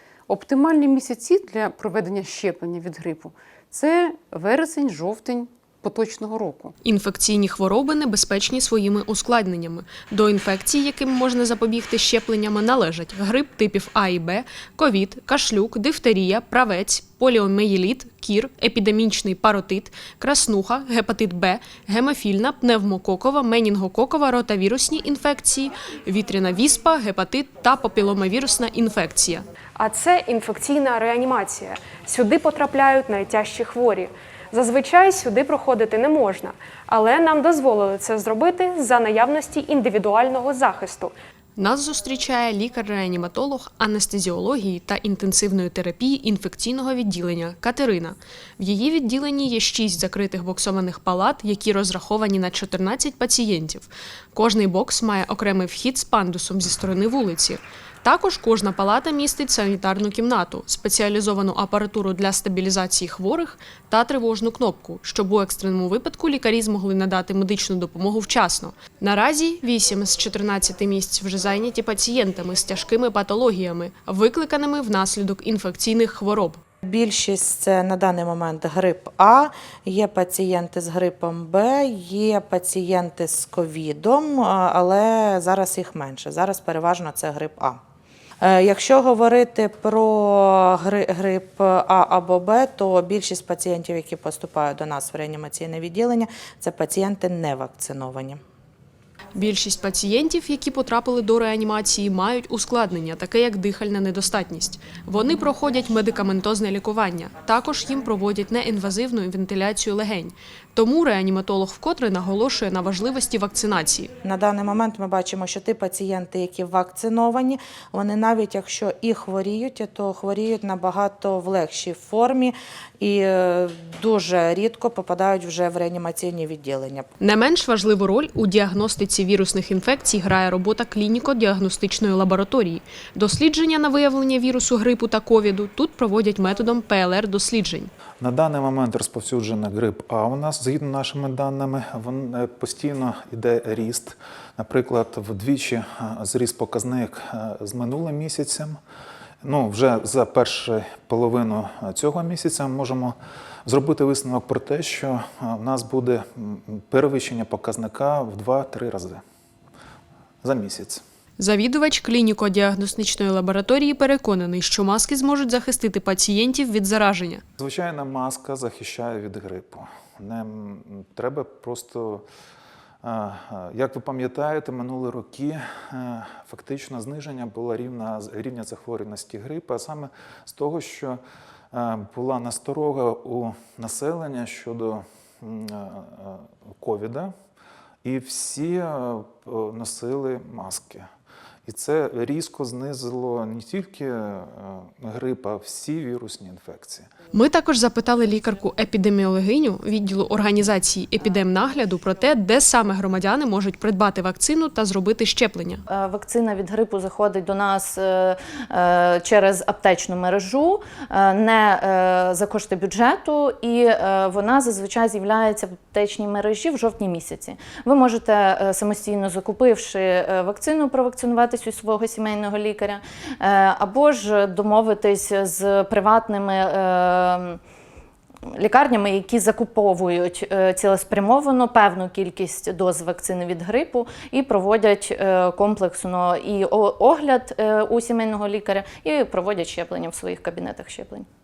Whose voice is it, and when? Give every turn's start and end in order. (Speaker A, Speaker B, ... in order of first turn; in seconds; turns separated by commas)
Speaker A: 0.3-6.7, Speaker B: 6.8-76.6, Speaker C: 76.8-87.8, Speaker C: 88.4-98.4, Speaker B: 99.3-114.1, Speaker C: 114.2-127.1, Speaker B: 127.2-137.9, Speaker D: 138.2-148.8, Speaker D: 149.4-153.2, Speaker D: 153.7-159.2, Speaker D: 160.4-161.0, Speaker B: 161.4-167.4, Speaker D: 167.6-172.2, Speaker D: 173.0-181.2, Speaker D: 181.7-187.3, Speaker D: 188.0-191.1, Speaker D: 191.7-197.1, Speaker B: 197.3-205.8, Speaker E: 205.9-227.6, Speaker E: 228.5-241.2